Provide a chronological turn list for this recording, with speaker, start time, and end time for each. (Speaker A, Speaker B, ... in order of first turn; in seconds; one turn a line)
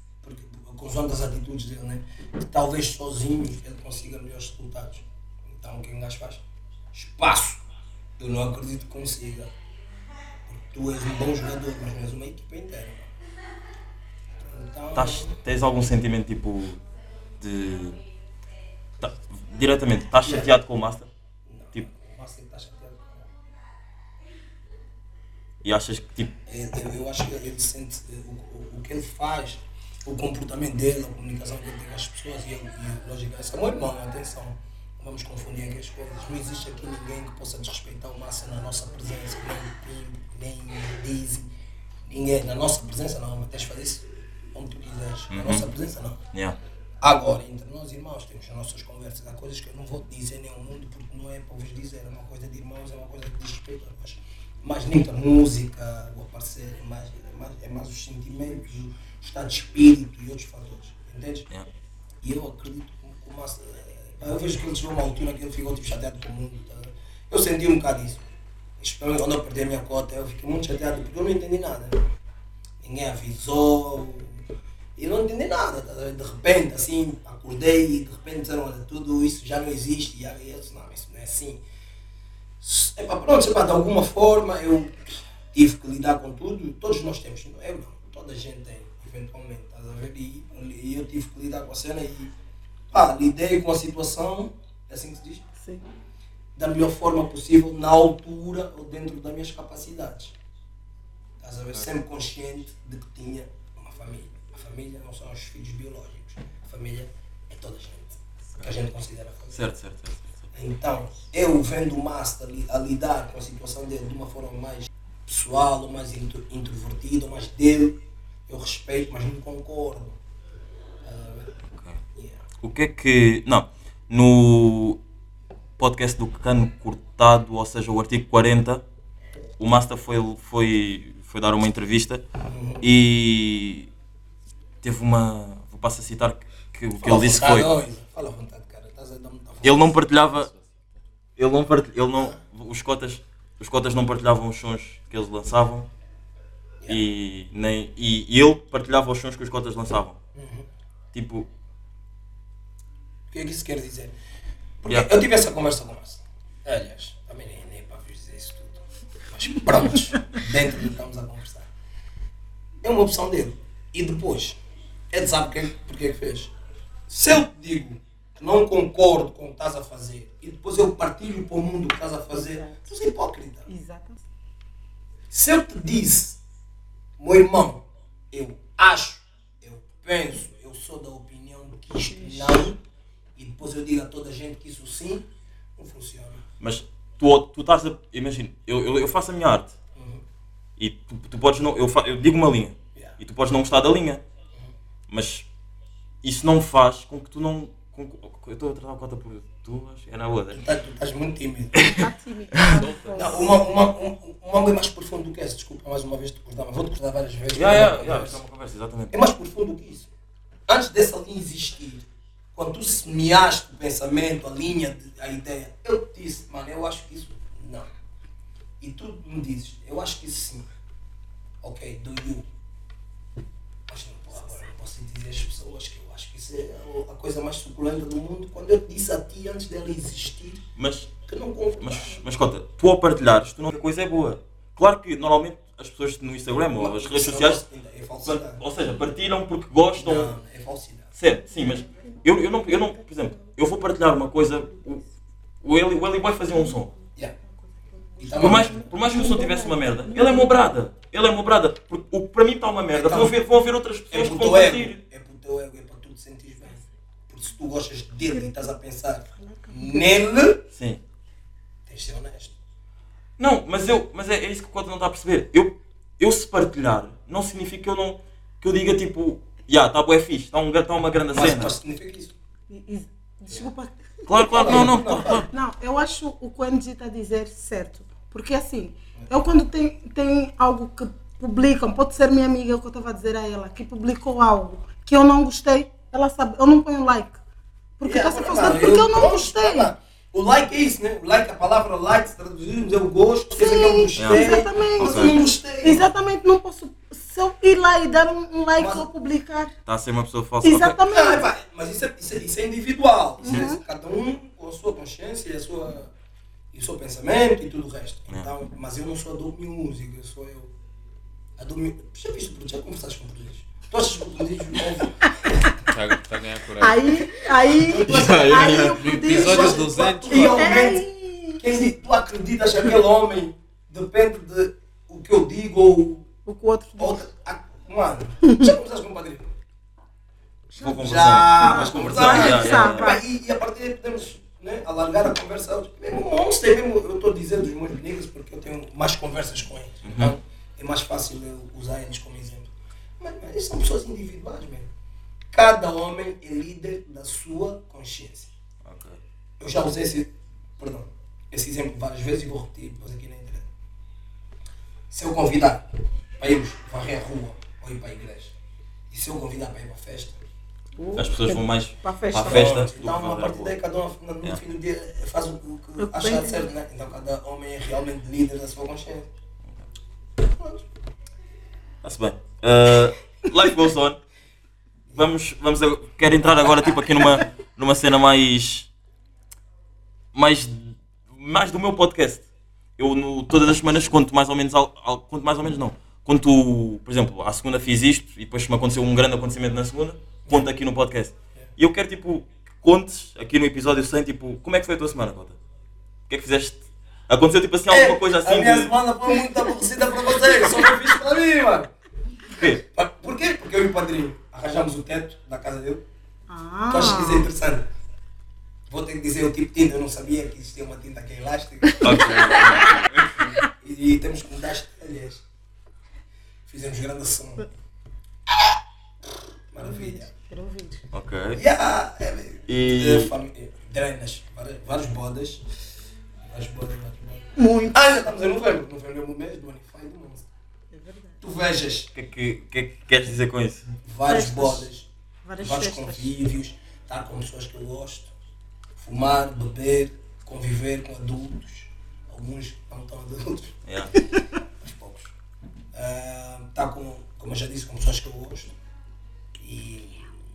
Speaker A: 0.2-7.6
Speaker A: 8.2-9.5
Speaker A: 10.5-13.1
Speaker A: 14.4-15.4
Speaker B: 14.9-16.8
Speaker B: 17.4-18.0
Speaker B: 19.0-21.1
Speaker A: 20.2-20.5
Speaker A: 21.5-23.3
Speaker B: 25.6-26.3
Speaker A: 26.4-41.5
Speaker A: 42.1-46.2
Speaker B: 45.3-45.6
Speaker B: 46.3-46.6
Speaker A: 47.0-61.5
Speaker A: 62.2-68.2
Speaker A: 68.8-72.0
Speaker A: 72.8-74.3
Speaker A: 75.0-81.6
Speaker A: 82.6-85.0
Speaker A: 85.5-92.3
Speaker A: 92.9-95.5
Speaker C: 95.6-95.9
Speaker A: 96.5-100.3
Speaker A: 101.4-109.6
Speaker B: 109.5-110.4
Speaker A: 110.5-120.2
Speaker A: 121.0-121.6
Speaker B: 121.7-122.0
Speaker A: 122.1-122.4
Speaker B: 122.6-125.0
Speaker B: 125.8-128.8
Speaker B: 129.6-132.2
Speaker A: 132.4-132.8
Speaker B: 132.8-133.9
Speaker B: 134.8-137.7
Speaker A: 137.0-140.0
Speaker B: 139.6-140.5
Speaker D: 140.4-140.9
Speaker B: 141.3-145.9
Speaker B: 146.9-150.2
Speaker A: 150.3-150.7
Speaker B: 151.1-151.5
Speaker A: 153.3-154.1
Speaker A: 154.8-161.7
Speaker B: 154.9-155.1
Speaker A: 162.8-164.6
Speaker A: 165.1-166.5
Speaker A: 167.1-173.7
Speaker C: 172.3-172.8
Speaker C: 173.7-174.2
Speaker A: 175.3-176.4
Speaker A: 177.2-182.8
Speaker C: 182.1-182.7
Speaker A: 183.3-186.4
Speaker B: 186.6-189.7
Speaker A: 189.9-190.2
Speaker B: 190.8-194.2
Speaker B: 195.1-195.5
Speaker B: 196.2-200.7
Speaker A: 200.5-201.8
Speaker C: 201.8-203.6
Speaker B: 202.6-202.8
Speaker D: 202.7-203.3
Speaker A: 203.1-208.4
Speaker B: 207.5-209.1
Speaker A: 209.1-210.1
Speaker A: 210.7-212.0
Speaker A: 212.5-217.9
Speaker A: 218.8-220.7
Speaker A: 221.6-222.4
Speaker A: 223.9-230.6
Speaker B: 230.8-231.1
Speaker A: 231.2-232.2
Speaker B: 231.8-237.6
Speaker A: 236.8-238.6
Speaker B: 238.2-240.3
Speaker A: 239.9-241.1
Speaker B: 241.2-245.0
Speaker C: 241.8-243.5
Speaker B: 245.6-246.9
Speaker C: 247.8-250.6
Speaker A: 248.2-248.8
Speaker B: 248.3-255.0
Speaker A: 252.9-253.3
Speaker A: 254.1-260.6
Speaker C: 259.4-260.2
Speaker B: 260.7-261.0
Speaker A: 261.9-262.5
Speaker B: 263.4-271.7
Speaker A: 271.3-272.3
Speaker C: 272.7-287.4
Speaker B: 274.3-275.5
Speaker A: 274.5-275.5
Speaker C: 288.0-289.9
Speaker A: 288.0-296.1
Speaker C: 293.6-299.7
Speaker B: 294.2-295.4
Speaker A: 298.8-299.1
Speaker B: 299.9-301.0
Speaker C: 300.6-301.5
Speaker A: 301.1-306.1
Speaker C: 303.4-303.8
Speaker A: 306.7-310.7
Speaker A: 311.6-315.6
Speaker D: 315.9-317.4
Speaker C: 316.8-321.8
Speaker A: 317.7-326.3
Speaker D: 318.1-320.8
Speaker B: 318.1-318.9
Speaker C: 326.4-327.3
Speaker A: 327.0-329.5
Speaker C: 328.4-328.7
Speaker B: 330.8-333.2
Speaker A: 330.8-344.9
Speaker C: 331.2-333.2
Speaker B: 340.0-340.3
Speaker A: 345.5-348.5
Speaker B: 348.8-349.2
Speaker A: 349.6-353.7
Speaker A: 355.1-355.9
Speaker A: 356.4-358.6
Speaker A: 359.1-360.4
Speaker C: 361.0-362.7
Speaker B: 361.1-363.7
Speaker A: 362.4-369.3
Speaker C: 366.0-366.7
Speaker A: 370.4-370.8
Speaker B: 372.0-374.2
Speaker B: 375.1-378.9
Speaker B: 380.3-382.4
Speaker B: 383.0-395.6
Speaker B: 396.3-398.9
Speaker A: 397.9-401.9
Speaker B: 402.6-402.8
Speaker A: 402.9-406.0
Speaker C: 406.5-407.5
Speaker A: 406.9-407.9
Speaker A: 408.9-415.4
Speaker C: 412.0-413.0
Speaker B: 412.0-413.3
Speaker A: 416.7-417.7
Speaker A: 419.7-420.3
Speaker C: 419.9-421.0
Speaker B: 421.1-421.6
Speaker A: 421.5-425.6
Speaker B: 422.7-423.3
Speaker A: 426.5-430.5
Speaker C: 427.6-427.9
Speaker C: 430.9-431.4
Speaker A: 431.4-432.1
Speaker B: 432.1-433.9
Speaker A: 434.0-435.1
Speaker C: 434.2-434.9
Speaker C: 435.4-436.3
Speaker A: 435.6-438.3
Speaker A: 439.0-443.8
Speaker B: 443.8-444.1
Speaker A: 444.5-445.3
Speaker A: 445.9-448.7
Speaker A: 449.6-450.4